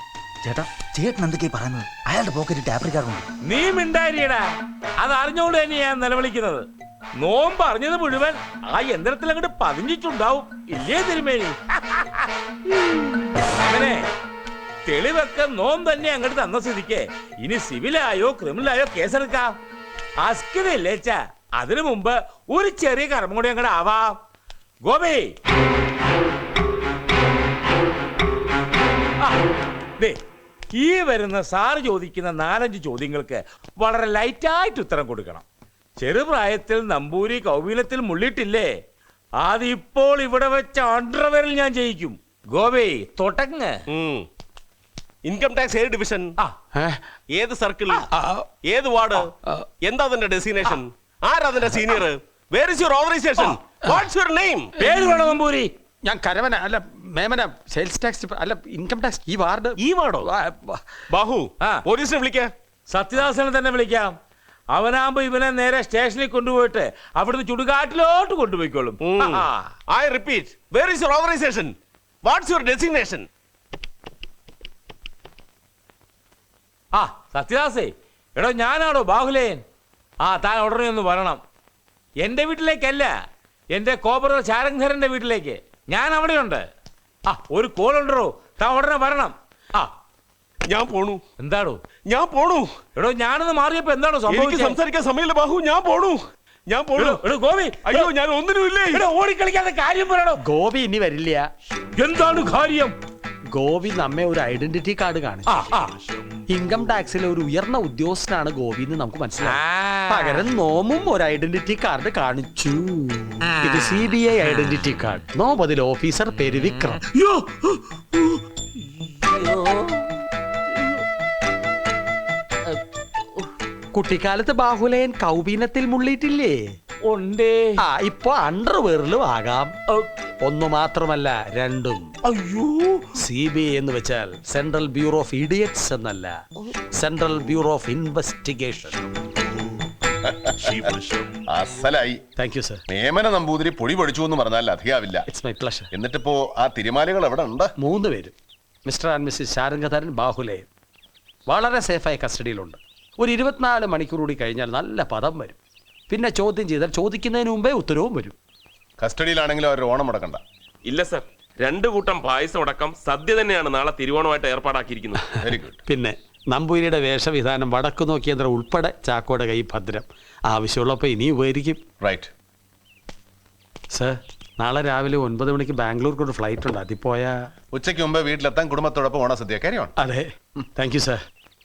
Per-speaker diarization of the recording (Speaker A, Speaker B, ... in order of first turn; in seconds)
Speaker A: 0.4-3.2
Speaker B: 3.4-4.5, 5.0-6.7, 7.2-14.1, 14.8-19.5, 20.2-24.2, 24.8-25.3, 30.8-35.4, 36.0-38.7, 39.4-43.7, 54.8-55.7, 62.9-64.1, 64.7-69.7, 76.9-79.6, 80.2-81.4, 82.2-83.1, 83.7-86.7, 87.3-89.9, 91.4-91.8, 93.0-94.8, 97.0-98.1, 98.9-100.4, 102.0-102.9, 105.5-105.9, 109.4-110.4, 117.0-118.4, 119.0-120.1, 127.0-127.8, 132.2-133.0
Speaker C: 44.0-44.2, 45.3-46.3, 47.4-48.0, 48.7-49.2, 49.9-54.6, 61.9-62.5, 69.2-69.5, 70.0-71.7, 72.3-73.3, 90.7-91.2, 92.1-92.7, 94.3-96.2, 96.7-97.2, 97.8-99.0, 160.9-165.0
Speaker D: 46.7-47.0, 48.1-48.5, 53.4-54.0, 56.0-60.8, 100.4-101.5, 103.5-105.7, 106.5-117.0, 123.9-126.6, 127.8-129.7, 130.4-132.1, 133.2-136.4, 136.9-139.1, 142.4-142.8, 145.3-145.9, 147.8-148.3, 148.8-150.7, 151.5-155.6, 156.1-158.3, 165.9-171.8, 173.9-177.4, 180.0-181.2
Speaker E: 48.8-49.0, 49.9-50.6, 51.3-52.0, 52.7-54.4, 62.1-62.4, 140.8-141.2, 161.8-165.2
Speaker F: 140.4-140.9, 141.5-142.2, 142.9-145.2, 145.9-147.7, 159.0-160.4, 165.3-165.8, 172.0-172.3, 177.7-179.9